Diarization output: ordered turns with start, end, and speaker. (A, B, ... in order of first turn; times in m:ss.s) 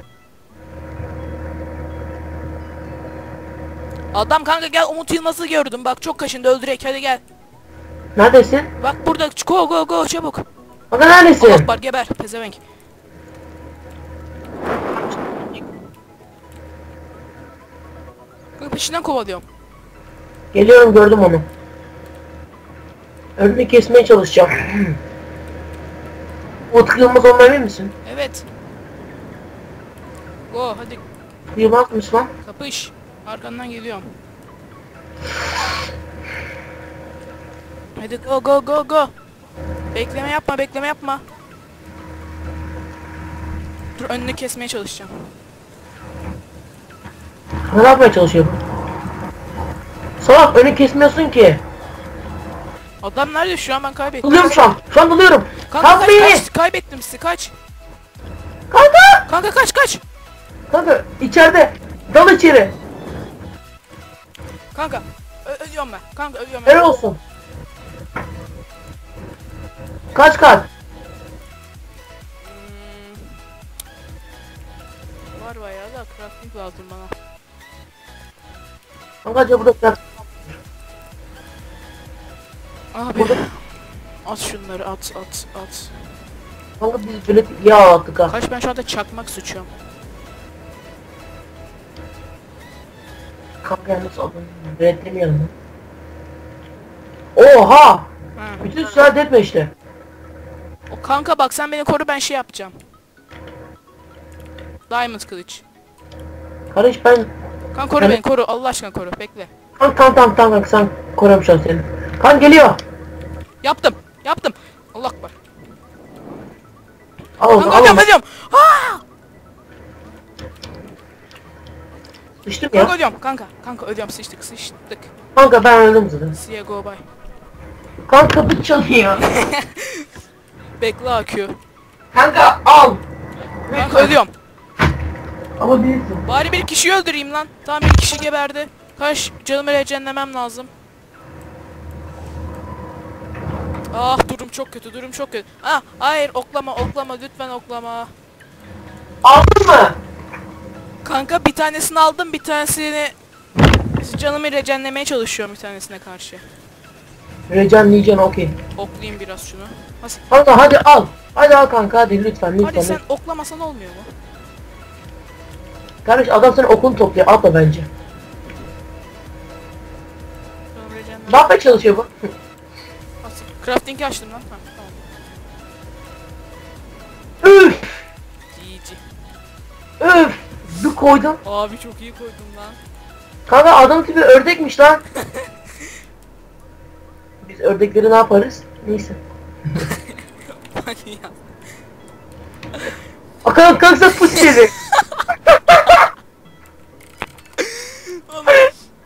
0:04.1-0:07.2 A
0:08.2-0:08.7 B
0:08.8-0:10.4 A
0:10.9-0:11.7 B
0:11.4-0:12.6 A
0:14.9-0:15.6 B
0:18.6-0:19.4 A
0:20.5-0:21.5 B
0:23.4-0:25.0 B
0:26.7-0:27.9 B
0:28.0-0:28.5 A
0:30.5-0:31.0 A
0:31.5-0:32.3 B
0:32.4-0:34.0 A
0:38.0-0:39.1 A
0:39.9-0:41.2 A
0:44.0-0:45.3 A
0:47.7-0:48.6 B
0:50.2-0:51.6 B
0:53.0-0:54.6 A
0:54.2-0:56.5 B
0:55.7-0:57.5 A
0:58.7-0:59.2 B
0:59.3-1:00.0 A
1:00.7-1:02.7 B
1:04.7-1:06.9 A
1:06.7-1:07.2 B
1:10.2-1:10.7 B
1:12.4-1:13.3 A
1:15.4-1:17.1 A
1:19.2-1:20.6 B
1:22.9-1:25.9 A
1:26.8-1:28.3 B
1:28.3-1:29.7 A
1:33.6-1:35.5 B
1:37.4-1:38.1 B
1:38.4-1:38.7 A
1:38.6-1:39.7 B
1:40.9-1:42.8 A
1:44.9-1:45.6 A
1:46.7-1:47.3 B
1:47.7-1:49.5 A
1:49.8-1:52.8 B
1:53.6-1:55.4 A
1:57.4-1:58.1 B
1:57.5-1:59.0 A
2:02.5-2:02.9 B
2:02.7-2:05.1 A
2:05.4-2:06.4 B
2:06.3-2:07.0 A
2:08.1-2:09.2 B
2:09.2-2:10.1 A
2:10.8-2:11.5 A
2:12.1-2:13.0 B
2:13.7-2:14.2 B
2:13.7-2:14.3 A
2:15.6-2:16.2 B
2:16.2-2:20.7 A
2:23.9-2:28.1 A
2:29.2-2:30.0 B
2:31.0-2:33.1 A
2:33.8-2:36.4 A
2:37.5-2:38.5 B
2:38.8-2:40.2 A
2:40.3-2:43.0 B
2:42.6-2:44.1 A
2:46.0-2:47.9 B
2:50.7-2:51.5 A
2:51.3-2:52.1 B
2:53.2-2:55.1 A
2:57.4-2:58.0 B
2:58.5-2:59.0 A
3:00.0-3:01.4 B
3:01.4-3:02.8 A
3:03.5-3:05.0 B
3:05.2-3:05.5 A
3:07.4-3:09.2 B
3:09.8-3:11.4 A
3:13.4-3:14.7 B
3:14.3-3:16.1 A
3:17.6-3:18.8 A